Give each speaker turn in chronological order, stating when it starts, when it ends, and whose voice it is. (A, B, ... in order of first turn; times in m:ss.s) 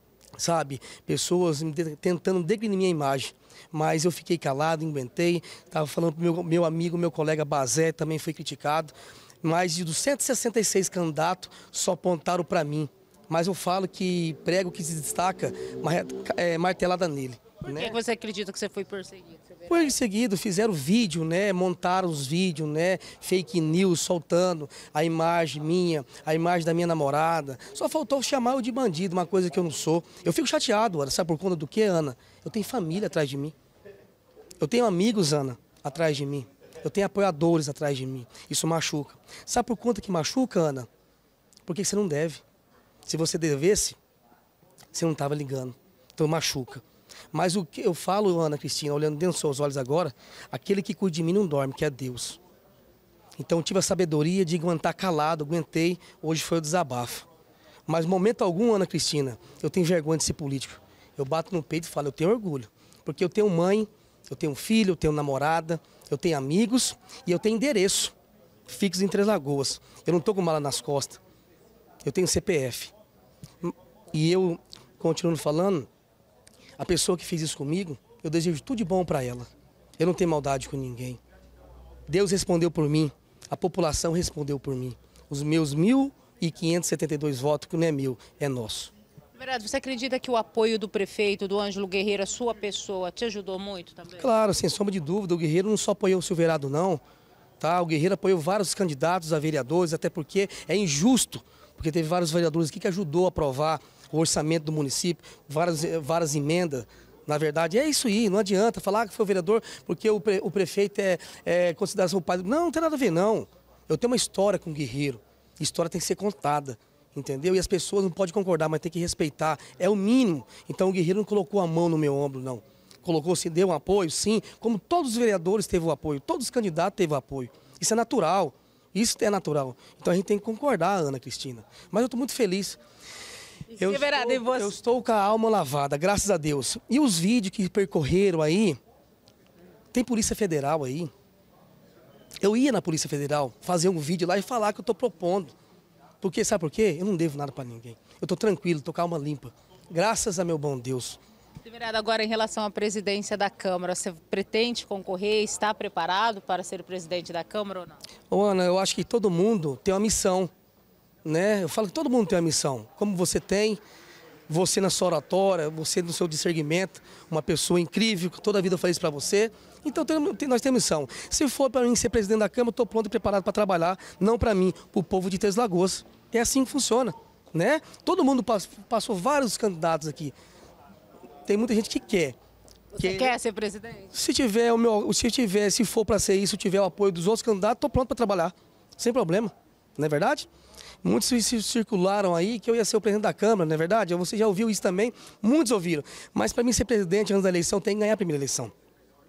0:00.4-0:18.0 A
0:17.6-0:19.9 B
0:19.7-0:33.6 A
0:34.6-0:40.9 A
0:41.7-0:42.4 A
0:43.1-0:44.0 A
0:44.9-0:52.4 A
0:53.4-0:57.3 A
0:57.9-1:08.1 A
1:08.7-1:11.2 A
1:12.0-1:12.9 A
1:13.6-1:15.9 A
1:16.8-1:19.5 A
1:20.0-1:21.2 A
1:22.1-1:28.9 A
1:29.4-1:34.3 B
1:34.2-1:37.0 A
1:37.6-2:12.8 A
2:13.7-2:14.8 B
2:13.8-2:18.8 A
2:19.9-2:21.1 A
2:22.4-2:25.6 A
2:26.2-2:31.2 A
2:31.6-2:38.0 B
2:38.3-2:40.5 A
2:41.2-2:43.8 A
2:44.5-3:00.4 A
3:01.5-3:02.4 A
3:02.9-3:04.1 B
3:03.0-3:03.4 A
3:04.1-3:10.5 A
3:11.0-3:18.7 A